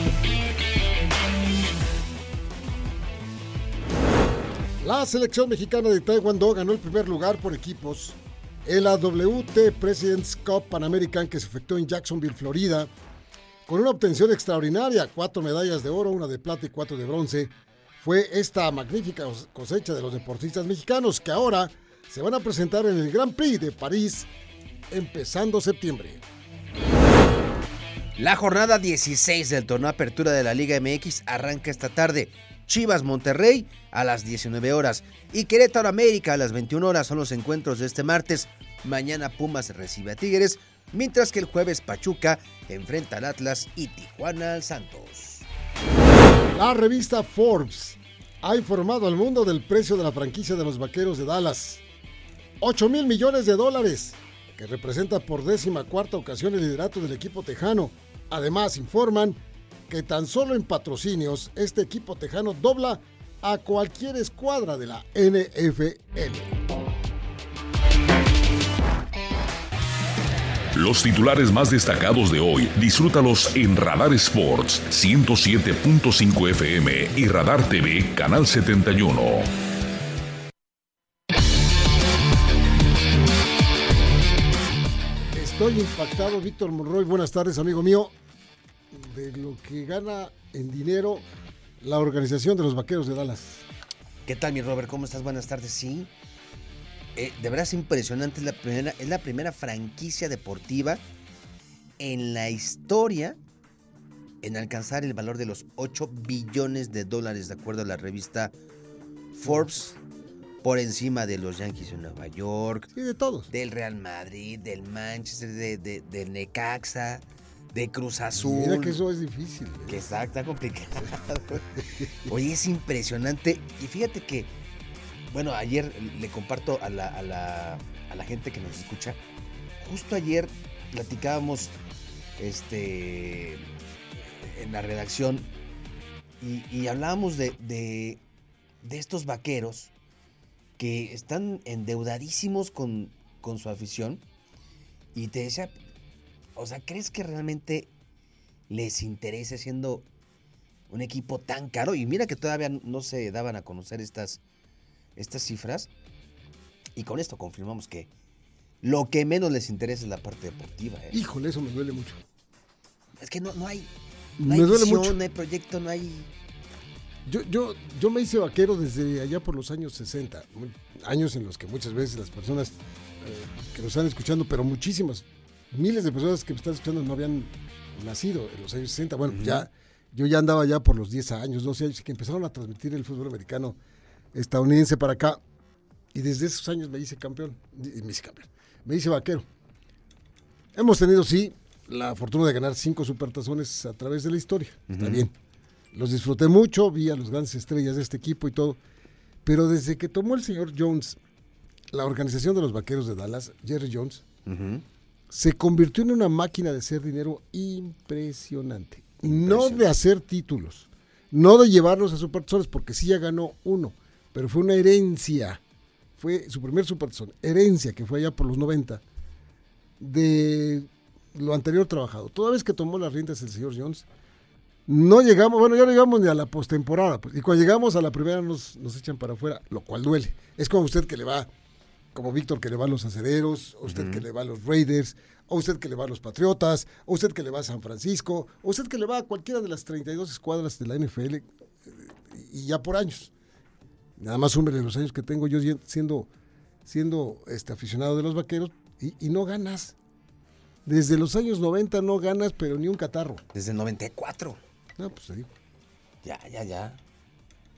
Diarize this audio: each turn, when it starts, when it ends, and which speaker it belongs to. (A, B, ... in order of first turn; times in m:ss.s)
0:04.8-0:12.9 A
0:13.6-0:24.3 A
0:24.9-0:26.2 A
0:28.2-0:45.4 B
0:46.5-0:51.8 A
0:52.6-0:59.4 A
0:59.9-1:06.6 A
1:10.7-1:19.5 C
1:25.3-1:28.1 A
1:28.9-1:31.2 A
1:31.8-1:33.6 A
1:34.2-1:36.1 B
1:37.1-1:41.0 B
1:42.0-1:43.4 B
1:44.4-1:48.5 B
1:49.3-1:50.0 B
1:50.6-1:52.9 B
1:52.9-1:53.5 A
1:53.5-1:59.0 B
1:58.3-2:00.1 A
1:59.9-2:04.5 B
2:01.8-2:02.1 A
2:05.3-2:09.2 B
2:09.8-2:11.7 B
2:12.4-2:13.6 B
2:14.2-2:15.5 B
2:16.4-2:18.2 B
2:18.8-2:19.9 B
2:20.8-2:24.2 B
2:25.1-2:25.7 B
2:26.5-2:27.9 B
2:28.7-2:30.0 B
2:30.9-2:34.4 B
2:35.2-2:35.9 B
2:36.9-2:38.1 B
2:38.8-2:41.2 B
2:41.1-2:42.2 A
2:43.2-2:46.3 B
2:44.4-2:45.2 A
2:47.2-3:03.8 A
2:59.3-2:59.6 B
3:04.3-3:05.4 A
3:06.1-3:09.5 A
3:10.7-3:15.3 A
3:14.9-3:15.3 B
3:15.9-3:18.8 A
3:19.4-3:21.2 A
3:21.9-3:24.2 A
3:24.4-3:24.8 B
3:25.3-3:35.6 A
3:29.2-3:29.8 B
3:36.2-3:39.0 A
3:40.0-3:44.0 A
3:44.9-3:51.5 A
3:52.1-4:03.3 A
3:53.8-3:54.2 B
4:04.2-4:06.3 A
4:06.8-4:09.9 A
4:10.8-4:13.4 A
4:13.5-4:14.6 B
4:15.0-4:15.5 A
4:16.2-4:17.0 B